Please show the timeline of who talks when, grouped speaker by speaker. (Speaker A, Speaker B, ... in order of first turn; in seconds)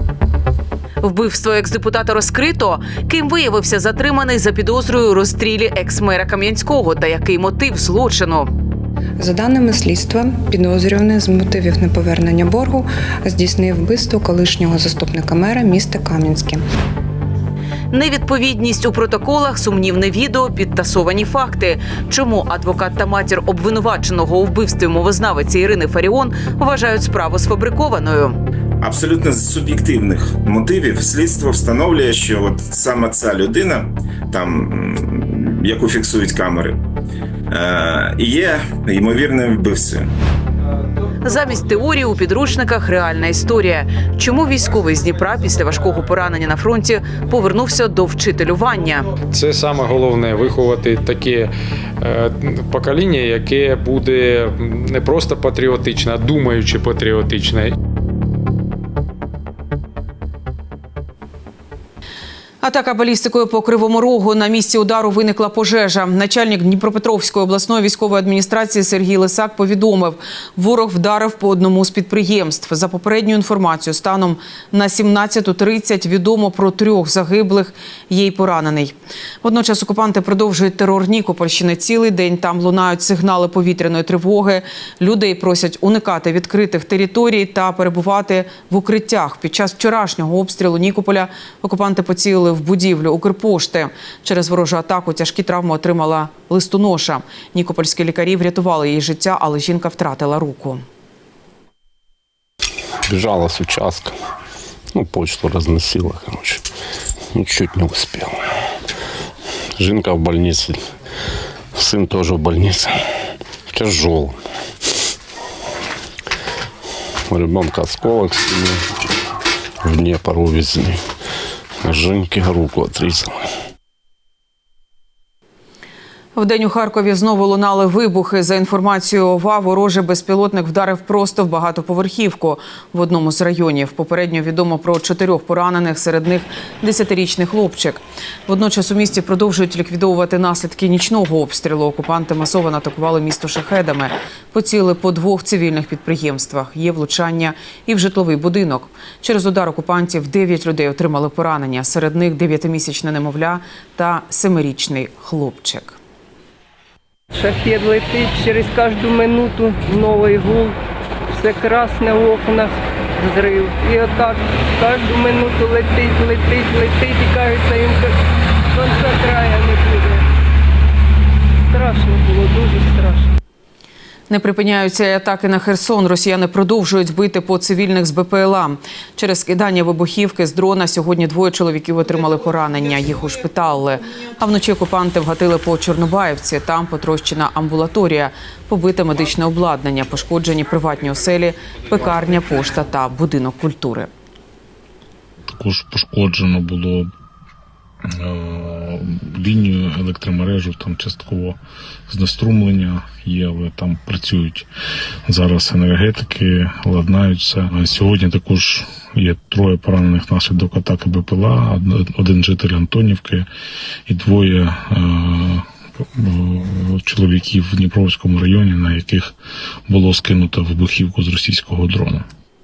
Speaker A: 1.0-8.5, 17.9-28.4, 41.2-49.1, 62.6-100.8, 126.4-156.0, 174.3-194.1
Speaker B: 9.2-16.6
Speaker C: 28.8-36.8, 37.5-40.1
Speaker D: 49.3-57.8
Speaker E: 103.1-104.1, 104.9-106.6, 107.3-108.4, 109.8-110.8, 111.8-113.0, 113.7-114.3, 117.3-118.8, 119.8-121.0, 121.8-123.3
Speaker F: 157.3-160.8, 161.3-168.2, 168.7-170.2, 171.7-173.3
Speaker G: 195.5-197.1, 198.1-204.7, 205.3-213.5, 214.1-219.3, 219.9-222.3